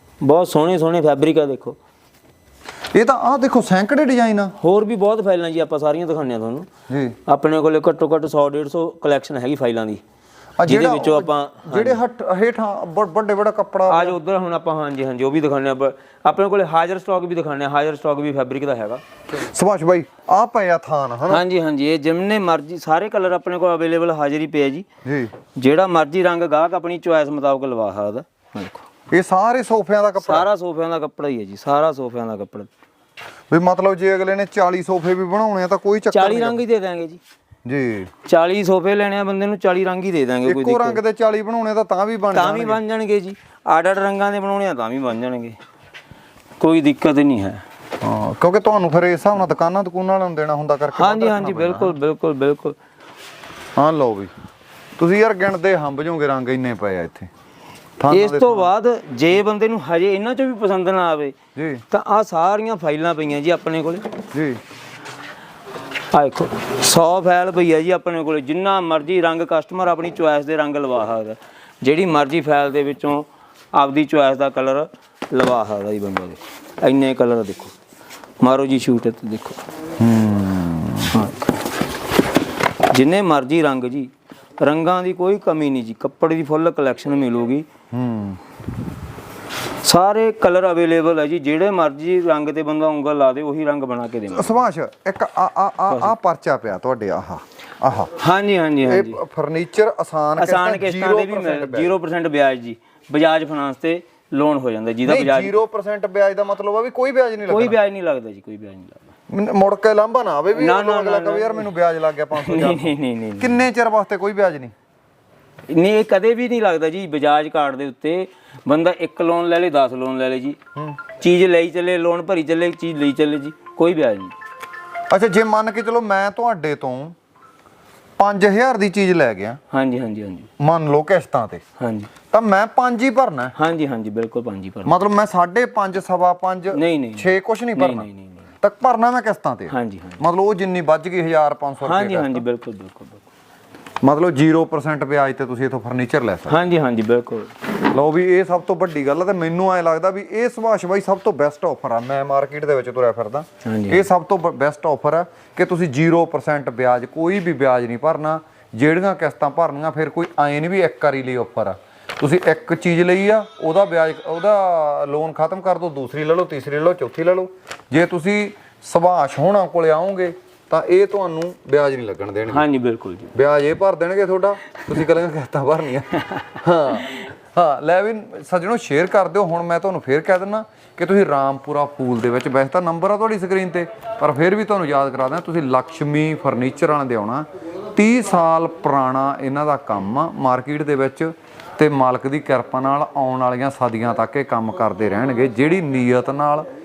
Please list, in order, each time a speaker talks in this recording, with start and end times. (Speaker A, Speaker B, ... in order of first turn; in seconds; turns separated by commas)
Speaker A: 0.2-1.8, Speaker B: 2.9-4.5, Speaker A: 4.6-6.7, Speaker B: 6.9-7.2, Speaker A: 7.2-10.0, Speaker B: 10.6-14.2, Speaker A: 10.6-12.0, Speaker A: 13.9-19.0, Speaker B: 19.3-21.4, Speaker A: 21.3-24.9, Speaker B: 25.0-25.3, Speaker A: 25.5-28.8, Speaker B: 29.1-30.5, Speaker A: 30.2-32.7, Speaker B: 33.5-36.6, Speaker A: 36.1-37.2, Speaker B: 37.6-38.1, Speaker A: 38.2-41.0, Speaker B: 40.5-42.8, Speaker A: 42.3-45.6, Speaker A: 46.6-47.6, Speaker B: 48.0-51.9, Speaker A: 50.9-52.8, Speaker B: 53.8-54.3, Speaker B: 55.0-57.3, Speaker B: 58.0-58.7, Speaker A: 58.1-61.4, Speaker B: 61.5-61.8, Speaker A: 61.9-64.0, Speaker B: 64.3-64.6, Speaker A: 66.1-77.7, Speaker A: 78.4-79.6, Speaker B: 80.0-81.2, Speaker A: 81.1-81.5, Speaker A: 82.9-87.7, Speaker B: 87.9-88.4, Speaker A: 89.8-94.6, Speaker B: 94.3-98.1, Speaker A: 95.9-96.1, Speaker A: 98.2-99.2, Speaker B: 98.8-102.0, Speaker A: 100.4-105.6, Speaker B: 105.0-107.8, Speaker A: 107.5-109.1, Speaker B: 109.3-114.7, Speaker A: 110.5-111.7, Speaker A: 112.3-113.6, Speaker A: 115.7-120.6, Speaker A: 121.2-124.3, Speaker B: 125.1-127.1, Speaker B: 128.2-129.6, Speaker A: 129.7-130.5, Speaker B: 130.6-131.6, Speaker A: 131.8-132.1, Speaker B: 132.3-133.5, Speaker A: 133.6-135.0, Speaker B: 134.8-138.1, Speaker A: 136.7-138.4, Speaker B: 138.6-142.4, Speaker A: 139.7-140.2, Speaker A: 141.8-143.2, Speaker B: 144.0-146.6, Speaker A: 146.5-147.5, Speaker B: 147.9-172.6, Speaker A: 153.6-154.1, Speaker A: 172.5-173.3, Speaker B: 173.3-196.6, Speaker A: 176.3-176.6